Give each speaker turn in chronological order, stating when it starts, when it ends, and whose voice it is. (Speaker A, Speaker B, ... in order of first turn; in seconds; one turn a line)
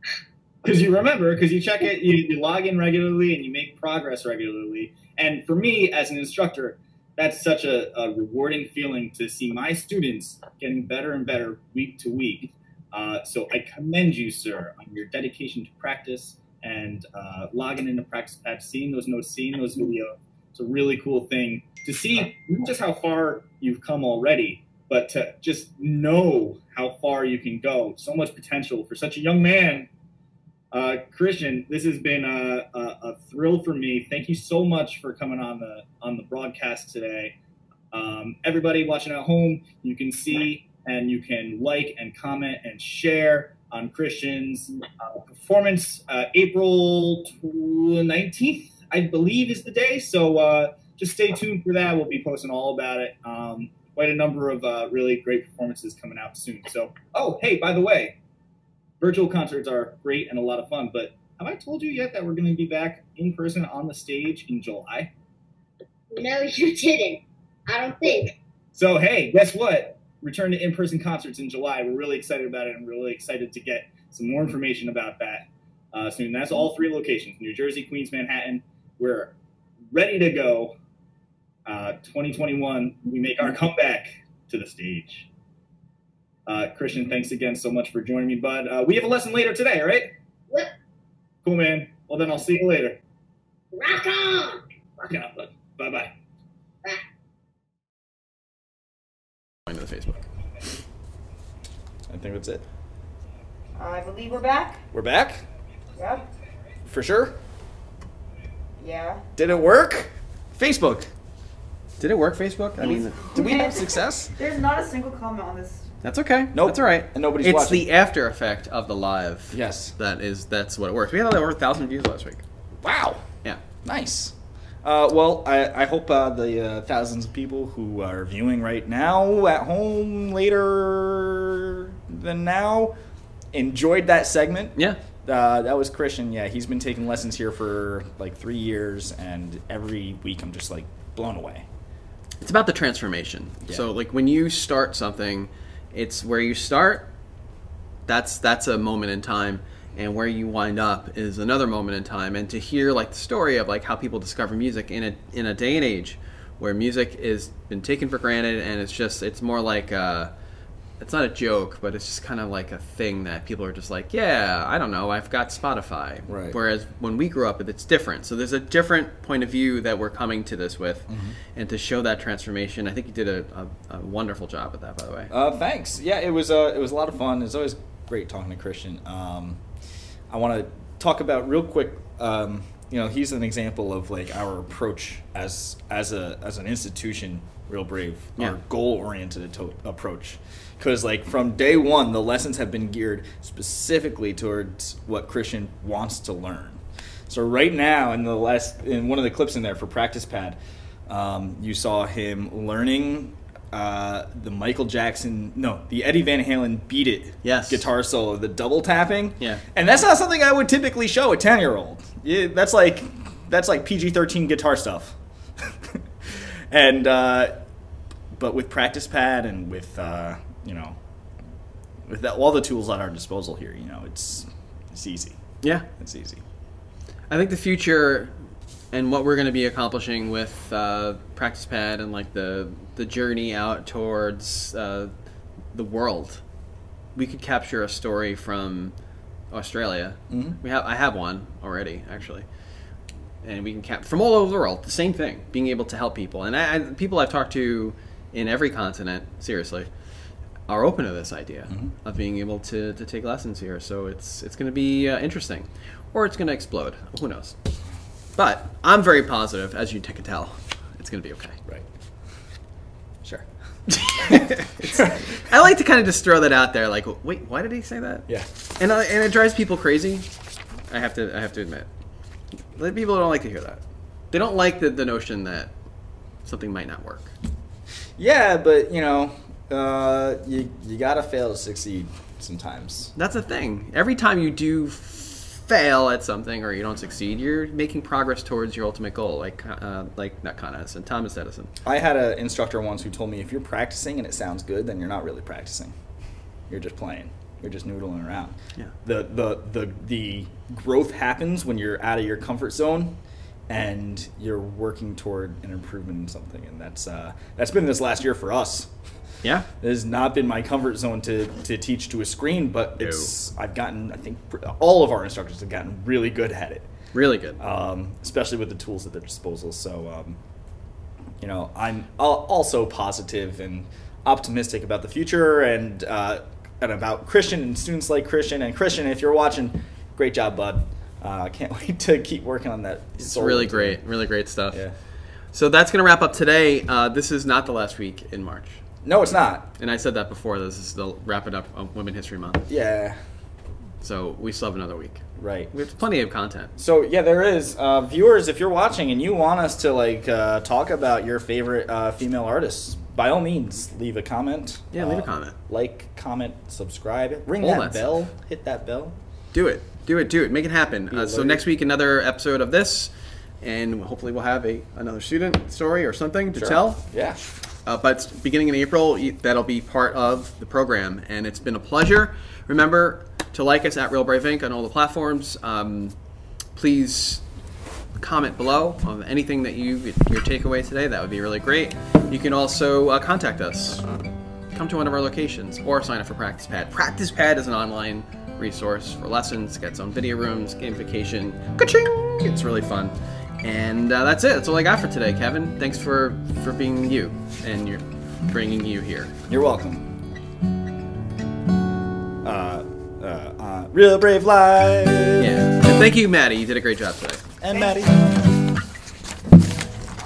Speaker A: 0.6-29.9
Speaker A: 30.7-37.3
Speaker A: 37.9-58.1
Speaker A: 59.0-65.1
Speaker B: 66.1-68.3
Speaker A: 68.7-79.3
Speaker A: 79.9-80.7
Speaker A: 81.7-85.3
Speaker A: 86.5-90.1
Speaker A: 91.4-93.0
Speaker B: 93.7-94.6
Speaker A: 95.0-96.1
Speaker C: 99.7-100.2
Speaker D: 102.1-102.6
Speaker E: 103.8-104.8
Speaker D: 104.9-105.4
Speaker E: 106.0-106.2
Speaker D: 106.8-107.3
Speaker E: 108.8-109.2
Speaker D: 109.3-111.1
Speaker C: 112.0-113.2
Speaker D: 112.8-114.3
Speaker E: 113.3-115.9
Speaker C: 116.0-122.4
Speaker D: 116.5-117.9
Speaker D: 119.5-119.9
Speaker D: 122.8-123.2
Speaker D: 123.8-132.9
Speaker D: 133.5-141.7
Speaker C: 142.4-147.1
Speaker C: 148.1-160.3
Speaker C: 161.0-175.3
Speaker D: 166.3-166.6
Speaker D: 171.1-171.3
Speaker D: 175.3-179.6
Speaker D: 180.3-217.5
Speaker C: 207.4-207.8
Speaker D: 218.3-221.0
Speaker D: 222.1-226.4
Speaker C: 227.3-228.3
Speaker C: 228.9-235.1
Speaker C: 235.7-236.4
Speaker C: 237.1-238.9
Speaker C: 239.5-242.4
Speaker D: 240.3-240.6
Speaker C: 243.4-249.9
Speaker C: 250.7-257.6
Speaker C: 258.4-261.6
Speaker C: 263.9-268.3
Speaker D: 264.2-265.2
Speaker C: 268.8-270.3
Speaker C: 270.9-271.9
Speaker C: 272.7-273.8
Speaker C: 274.3-275.7
Speaker C: 276.4-277.3
Speaker D: 278.2-283.1
Speaker C: 283.1-291.7
Speaker D: 291.8-295.9
Speaker D: 296.7-303.2
Speaker D: 303.7-308.9
Speaker D: 309.8-316.9
Speaker C: 313.0-313.3
Speaker C: 317.1-317.6
Speaker D: 317.6-320.4
Speaker D: 321.4-334.0
Speaker C: 333.2-334.8
Speaker C: 335.5-338.8
Speaker D: 339.0-339.7
Speaker C: 339.8-342.7
Speaker D: 342.7-343.2
Speaker C: 344.0-346.7
Speaker D: 345.4-345.7
Speaker D: 346.8-359.1
Speaker C: 354.9-355.6
Speaker C: 357.6-358.1
Speaker C: 359.5-367.0
Speaker D: 361.1-361.6
Speaker D: 366.5-367.4
Speaker C: 367.9-376.1
Speaker C: 376.7-377.4
Speaker C: 378.2-384.0
Speaker C: 384.7-399.3
Speaker D: 399.5-400.1
Speaker D: 402.4-405.5
Speaker C: 405.4-407.4
Speaker D: 407.6-408.5